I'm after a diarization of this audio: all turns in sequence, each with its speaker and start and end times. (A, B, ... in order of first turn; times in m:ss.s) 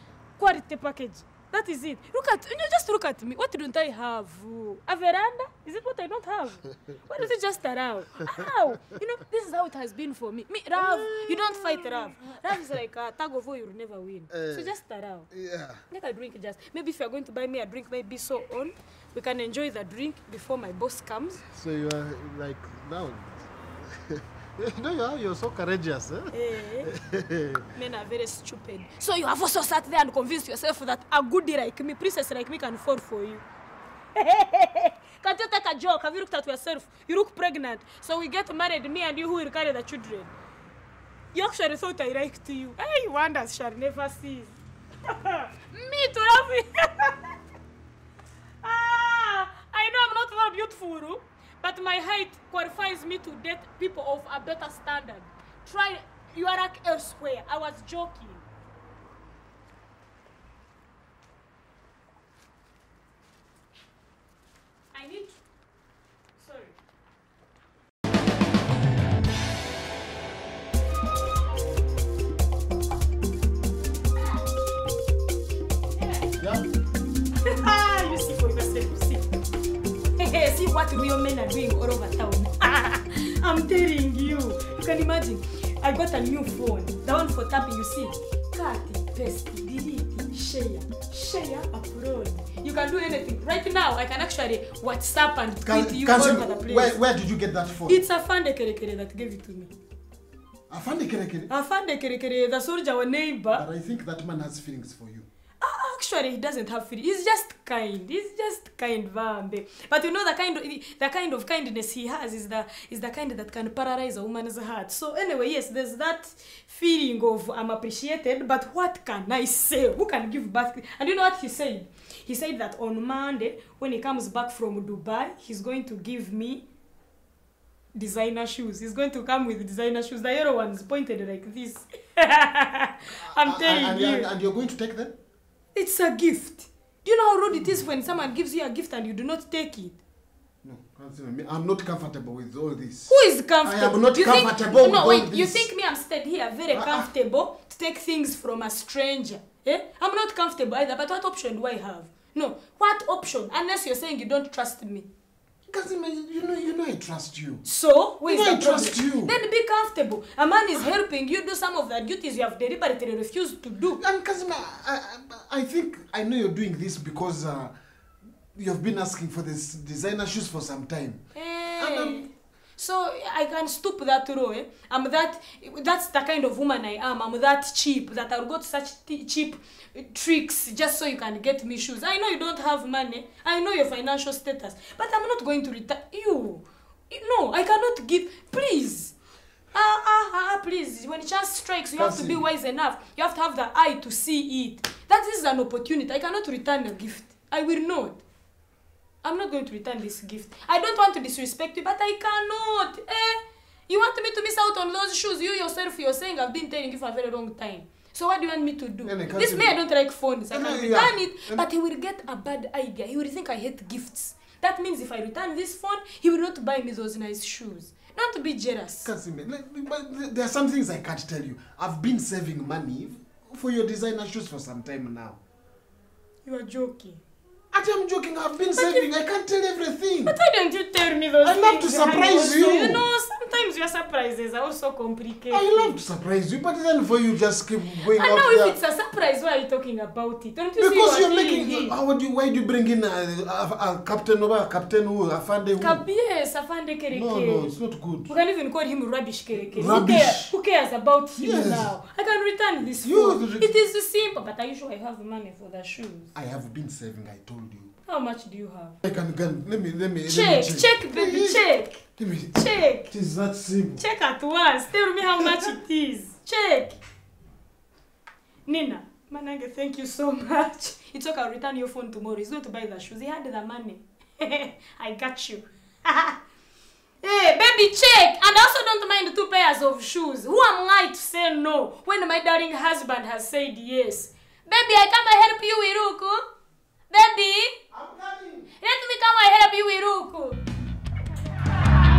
0:00.4-0:15.3 A
0:10.8-0:12.4 B
0:14.3-0:14.7 B
0:15.3-0:15.8 B
0:15.9-0:21.4 A
0:21.5-0:27.6 B
0:26.3-0:26.9 A
0:27.7-0:33.4 A
0:34.1-0:40.3 A
0:41.3-0:47.3 A
0:48.6-0:58.4 A
1:04.9-1:05.3 A
1:06.4-1:06.8 A
1:16.4-1:16.7 B
1:17.4-1:19.2 A
1:20.2-1:37.0 A
1:35.6-1:38.0 B
1:37.9-1:39.7 A
1:40.7-1:41.5 B
1:41.5-1:43.6 A
1:43.5-1:45.3 B
1:45.6-2:06.6 A
2:07.9-2:14.3 A
2:13.2-2:15.2 B
2:15.7-2:20.0 A
2:20.6-2:25.7 B
2:23.1-2:35.1 A
2:26.7-2:27.1 B
2:35.7-2:37.6 B
2:37.6-2:44.0 A
2:38.2-2:39.3 B
2:44.0-2:47.7 B
2:48.5-2:51.2 B
2:51.3-3:09.1 A
2:51.8-2:52.3 B
3:09.7-3:18.2 A
3:12.0-3:12.4 B
3:19.2-3:39.1 A
3:29.0-3:29.8 B
3:30.5-3:31.6 B
3:39.0-3:45.4 B
3:46.4-3:47.2 A
3:47.7-3:50.4 B
3:48.7-3:49.1 A
3:50.2-3:55.9 A
3:51.4-3:53.0 B
3:55.5-3:58.8 B
3:58.1-4:02.0 A
4:00.8-4:06.0 B
4:05.8-4:07.7 A
4:07.1-4:08.3 B
4:08.3-4:16.3 A
4:09.5-4:10.5 B
4:11.4-4:11.9 B
4:13.0-4:13.7 B
4:16.3-4:17.9 B
4:18.0-4:19.0 A
4:19.0-4:21.6 B
4:20.2-4:22.0 A
4:22.2-4:24.0 B
4:22.5-4:23.1 A
4:24.0-4:27.0 A
4:28.6-4:36.4 A
4:37.2-4:46.4 A
4:47.1-4:47.7 A
4:47.9-4:48.7 B
4:48.8-4:50.6 A